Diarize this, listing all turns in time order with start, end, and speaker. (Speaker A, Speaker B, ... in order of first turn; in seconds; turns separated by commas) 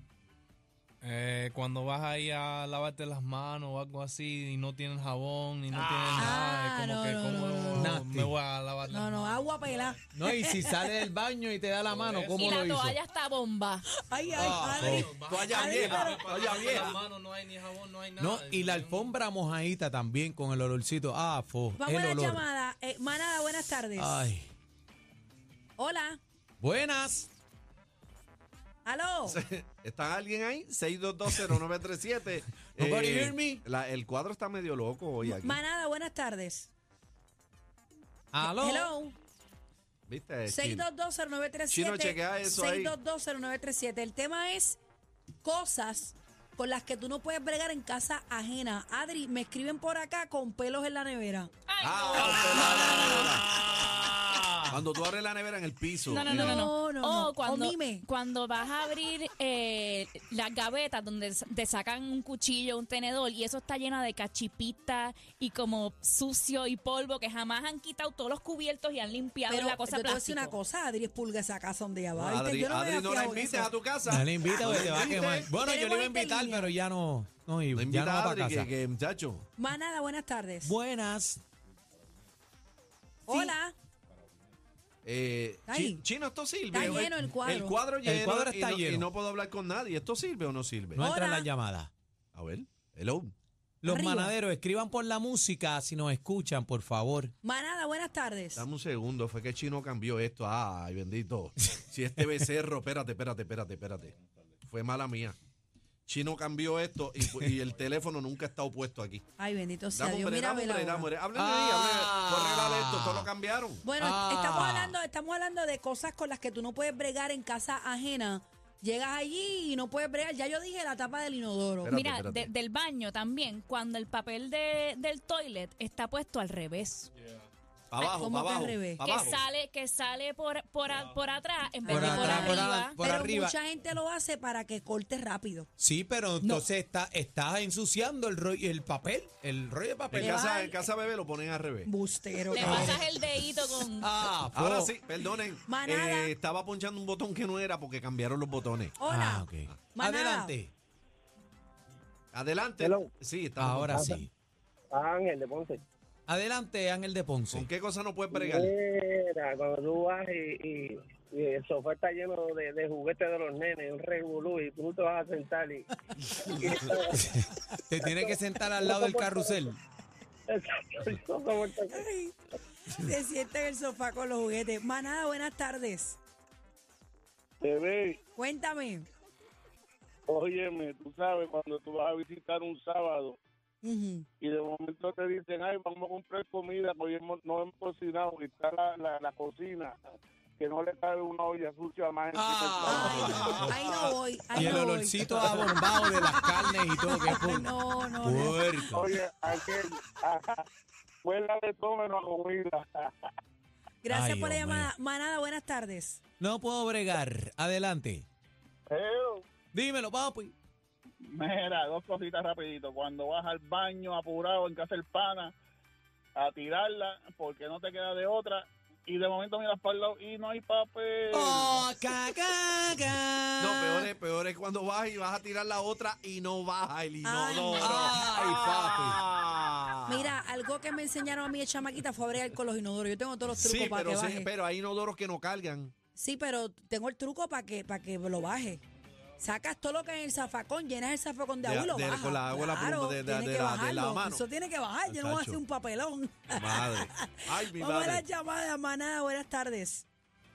Speaker A: 1.0-10.0, Speaker B: 5.7-6.4, Speaker C: 6.2-8.0, Speaker B: 7.8-8.3, Speaker C: 8.9-10.9, Speaker B: 10.1-13.0, Speaker A: 11.9-12.5, Speaker D: 12.4-13.8, Speaker C: 14.0-16.3, Speaker A: 14.2-19.1, Speaker B: 14.3-15.1, Speaker E: 15.3-17.0, Speaker B: 18.2-22.4, Speaker C: 21.8-24.2, Speaker B: 24.0-24.5, Speaker C: 25.8-26.2, Speaker B: 26.6-27.3, Speaker C: 28.9-29.4, Speaker E: 29.3-35.6, Speaker B: 32.8-33.6, Speaker C: 35.2-36.7, Speaker B: 38.3-38.9, Speaker C: 38.4-39.2, Speaker E: 40.1-40.9, Speaker C: 40.5-44.8, Speaker E: 41.7-43.0, Speaker C: 45.4-51.5, Speaker D: 51.7-53.1, Speaker E: 51.8-53.5, Speaker C: 52.2-53.3, Speaker B: 53.2-54.8, Speaker E: 54.7-56.6, Speaker D: 56.1-70.5, Speaker C: 56.3-58.0, Speaker C: 69.5-73.7, Speaker E: 72.1-75.5, Speaker B: 74.0-78.7, Speaker C: 74.4-76.7, Speaker E: 77.8-79.5, Speaker C: 79.6-80.7, Speaker B: 80.6-81.4, Speaker C: 83.3-83.8, Speaker E: 85.0-91.1, Speaker C: 85.7-86.0, Speaker C: 86.7-87.8, Speaker B: 88.0-89.1, Speaker B: 91.0-91.9, Speaker C: 91.0-91.5, Speaker E: 92.3-93.3, Speaker B: 93.8-97.3, Speaker C: 93.9-94.3, Speaker C: 97.4-98.7, Speaker E: 98.6-105.4, Speaker E: 106.1-109.2, Speaker B: 107.2-107.5, Speaker C: 109.4-111.1, Speaker E: 109.9-113.8, Speaker B: 111.3-113.3, Speaker C: 113.8-121.9, Speaker B: 114.0-115.0, Speaker E: 121.8-122.5, Speaker D: 121.9-127.1, Speaker E: 127.9-129.4, Speaker C: 128.1-129.1, Speaker D: 129.0-132.9, Speaker C: 131.8-135.7, Speaker B: 131.9-133.6, Speaker B: 135.8-140.4, Speaker E: 140.1-141.9, Speaker C: 140.2-140.8, Speaker C: 141.8-143.0, Speaker D: 142.5-144.1, Speaker E: 142.6-142.9, Speaker B: 144.0-144.9, Speaker E: 144.5-149.0, Speaker C: 145.7-146.3, Speaker C: 149.0-150.6, Speaker B: 149.1-150.7, Speaker E: 152.3-154.0, Speaker F: 152.8-153.1, Speaker B: 153.6-154.3, Speaker F: 153.9-154.2, Speaker F: 154.9-155.8, Speaker B: 156.3-157.7, Speaker E: 157.5-158.7, Speaker F: 158.3-165.8, Speaker F: 166.5-167.2, Speaker B: 167.1-169.8, Speaker F: 168.0-169.6, Speaker F: 170.5-172.1, Speaker C: 171.9-172.4, Speaker C: 172.9-176.2, Speaker G: 177.6-178.2, Speaker C: 178.4-179.1, Speaker G: 180.3-183.4, Speaker C: 183.8-184.3, Speaker G: 184.4-189.9, Speaker G: 190.6-193.4, Speaker B: 192.3-193.9, Speaker C: 192.9-195.8, Speaker E: 193.1-194.1, Speaker B: 194.5-199.1, Speaker C: 197.0-199.0, Speaker G: 198.9-200.7, Speaker G: 201.2-203.1, Speaker C: 204.0-206.2, Speaker B: 204.1-204.9, Speaker B: 206.4-208.3, Speaker G: 208.9-209.4, Speaker B: 209.7-210.5, Speaker G: 211.3-215.5, Speaker G: 216.4-221.7, Speaker B: 221.3-224.1, Speaker E: 223.6-230.3, Speaker C: 227.2-228.2, Speaker B: 227.8-229.2, Speaker C: 230.1-234.5, Speaker E: 233.5-235.9, Speaker C: 236.2-238.8, Speaker C: 239.4-250.1, Speaker E: 241.6-244.4, Speaker E: 245.1-245.6, Speaker E: 246.5-248.2